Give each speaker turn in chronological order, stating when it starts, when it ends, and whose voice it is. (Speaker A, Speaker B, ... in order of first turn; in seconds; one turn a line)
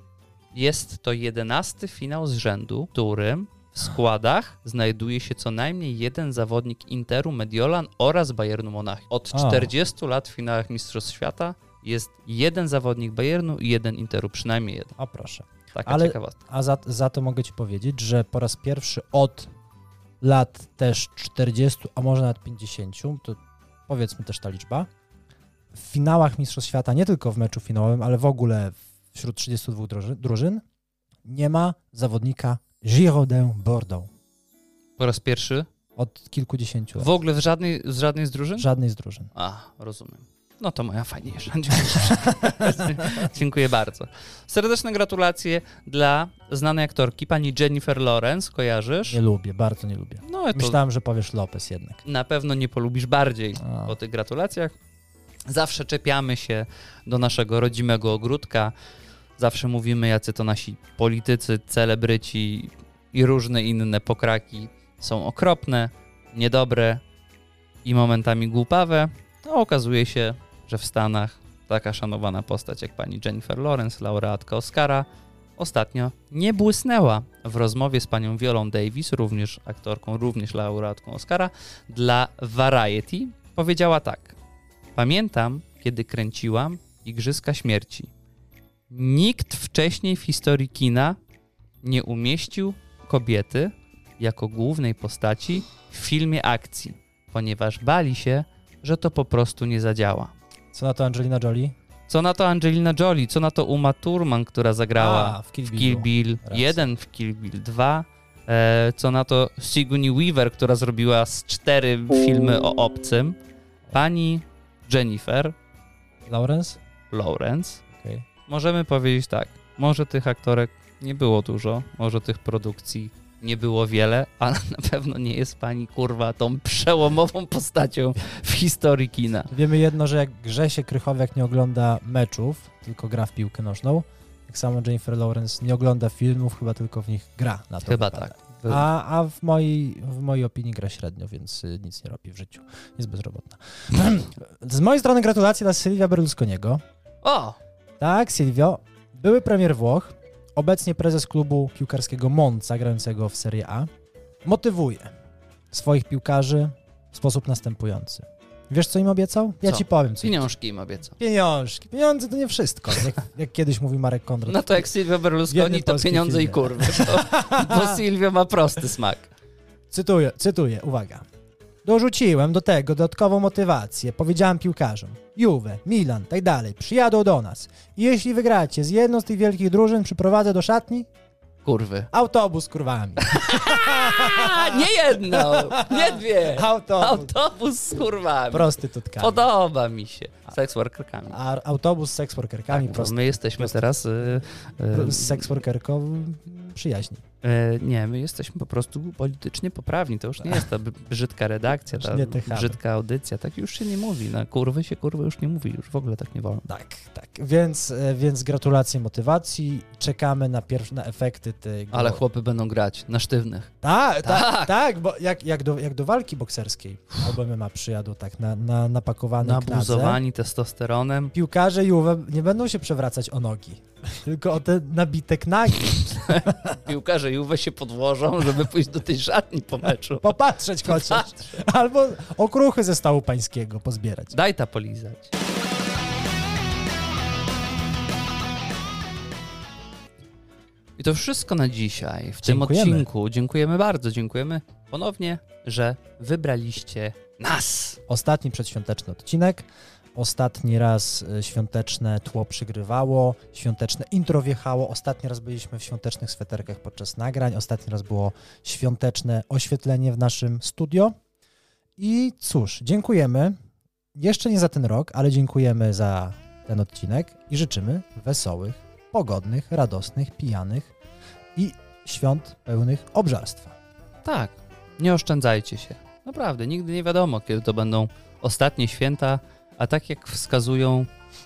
Speaker A: 0.5-15.0
Speaker B: 9.3-9.7
Speaker B: 15.0-19.5
Speaker A: 15.7-16.4
Speaker B: 20.2-24.9
Speaker B: 25.7-30.6
Speaker B: 31.2-34.1
Speaker A: 35.0-35.7
Speaker B: 36.0-37.1
Speaker A: 37.0-38.7
Speaker B: 38.6-39.3
Speaker A: 39.3-49.2
Speaker B: 49.1-52.0
Speaker A: 50.2-50.8
Speaker A: 52.0-54.7
Speaker B: 53.6-53.9
Speaker A: 55.5-58.7
Speaker A: 59.4-67.0
Speaker A: 67.8-84.4
Speaker A: 85.0-88.1
Speaker A: 88.9-91.2
Speaker A: 91.8-100.3
Speaker B: 100.7-101.7
Speaker A: 102.1-113.4
Speaker B: 105.0-106.8
Speaker A: 113.9-115.5
Speaker B: 116.2-116.8
Speaker A: 117.1-117.8
Speaker B: 117.9-118.2
Speaker A: 118.5-129.5
Speaker B: 129.5-146.8
Speaker A: 137.8-138.9
Speaker A: 147.2-147.6
Speaker B: 148.0-153.9
Speaker B: 154.4-155.1
Speaker B: 155.7-160.4
Speaker A: 159.6-161.2
Speaker B: 161.2-164.9
Speaker A: 164.5-169.3
Speaker B: 165.5-168.0
Speaker B: 169.9-171.2
Speaker B: 171.8-181.1
Speaker A: 181.6-182.1
Speaker B: 182.1-187.3
Speaker A: 183.2-191.4
Speaker B: 188.5-189.5
Speaker B: 191.3-193.8
Speaker A: 192.7-195.5
Speaker B: 194.9-197.2
Speaker A: 197.4-206.7
Speaker B: 201.9-202.8
Speaker B: 206.7-212.2
Speaker A: 211.9-213.7
Speaker B: 213.8-220.2
Speaker A: 214.2-214.7
Speaker A: 219.4-221.3
Speaker B: 221.3-226.8
Speaker A: 226.0-231.6
Speaker B: 230.2-234.3
Speaker A: 234.3-235.3
Speaker A: 241.0-248.0
Speaker B: 242.4-243.1
Speaker B: 248.1-261.1
Speaker B: 262.0-263.5
Speaker B: 264.1-270.9
Speaker B: 271.6-273.8
Speaker A: 274.2-281.1